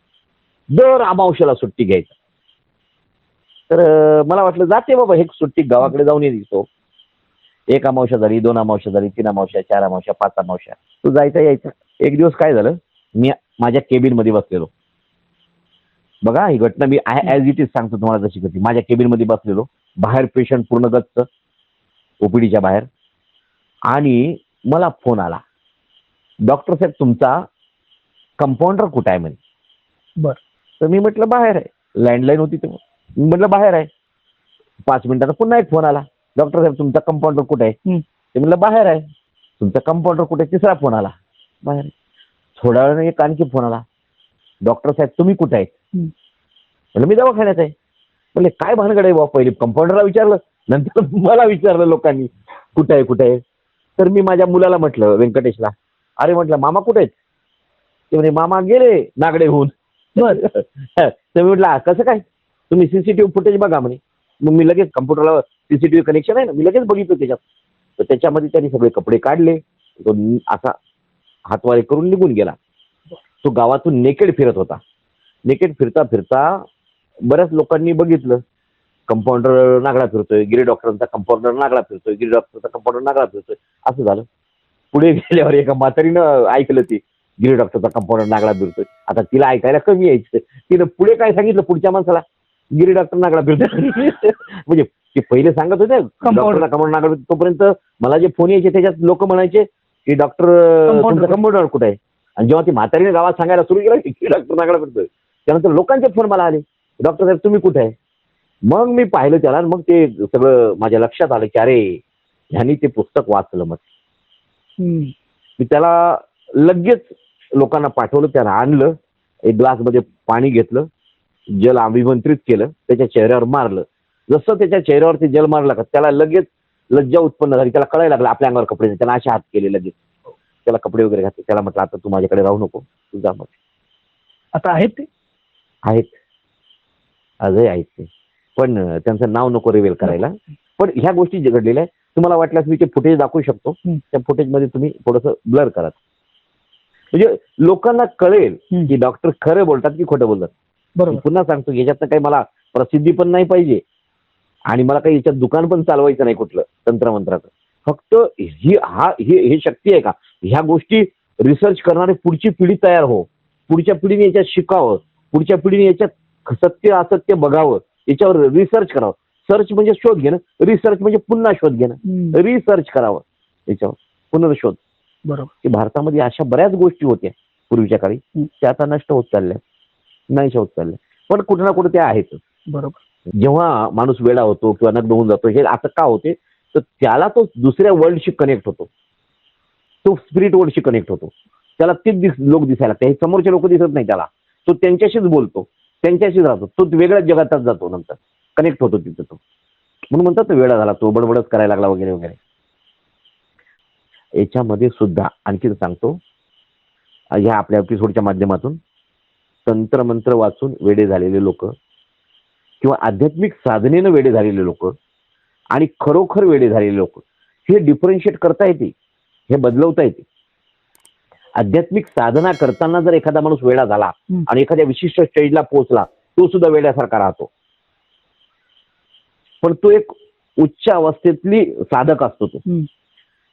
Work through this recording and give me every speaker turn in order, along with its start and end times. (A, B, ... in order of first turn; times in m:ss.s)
0:00.7-0:02.1 A
0:03.7-0:06.7 A
0:07.7-0:14.7 A
0:16.2-0:21.3 A
0:22.2-0:22.9 A
0:23.9-0:25.4 A
0:26.5-0:27.5 A
0:28.4-0:29.4 A
0:30.8-0:33.9 A
0:34.9-0:37.8 A
0:38.4-0:39.1 A
0:39.6-0:41.9 A
0:42.6-0:43.8 A
0:44.6-0:45.7 A
0:47.0-0:47.7 A
0:48.4-0:53.4 A
0:54.0-0:57.1 A
0:58.1-1:07.4 A
1:00.2-1:00.4 B
1:08.0-1:10.8 A
1:11.5-1:12.6 A
1:13.4-1:14.8 A
1:15.5-1:16.7 A
1:17.2-1:18.4 A
1:19.1-1:24.3 A
1:24.9-1:47.9 A
1:36.2-1:36.7 B
1:40.9-1:41.4 B
1:48.7-1:52.0 A
1:52.5-1:53.8 A
1:54.8-1:55.1 B
1:55.6-1:59.0 A
1:59.5-2:00.9 A
2:01.6-2:10.0 A
2:10.6-2:13.5 A
2:14.5-2:15.1 B
2:15.8-2:16.2 A
2:17.4-2:26.0 A
2:27.1-2:30.5 A
2:31.0-2:31.2 B
2:31.1-2:33.8 A
2:34.7-2:54.8 A
2:52.0-2:52.4 B
2:55.2-2:55.5 B
2:55.6-2:59.6 A
3:00.3-3:02.4 A
3:02.7-3:03.0 B
3:03.4-3:08.9 A
3:10.0-3:19.4 A
3:20.1-3:22.4 A
3:24.4-3:26.2 A
3:27.3-3:28.8 A
3:29.7-3:31.8 A
3:32.8-3:35.0 A
3:35.7-3:38.9 A
3:39.5-3:40.2 A
3:41.6-3:47.5 A
3:49.6-3:52.6 A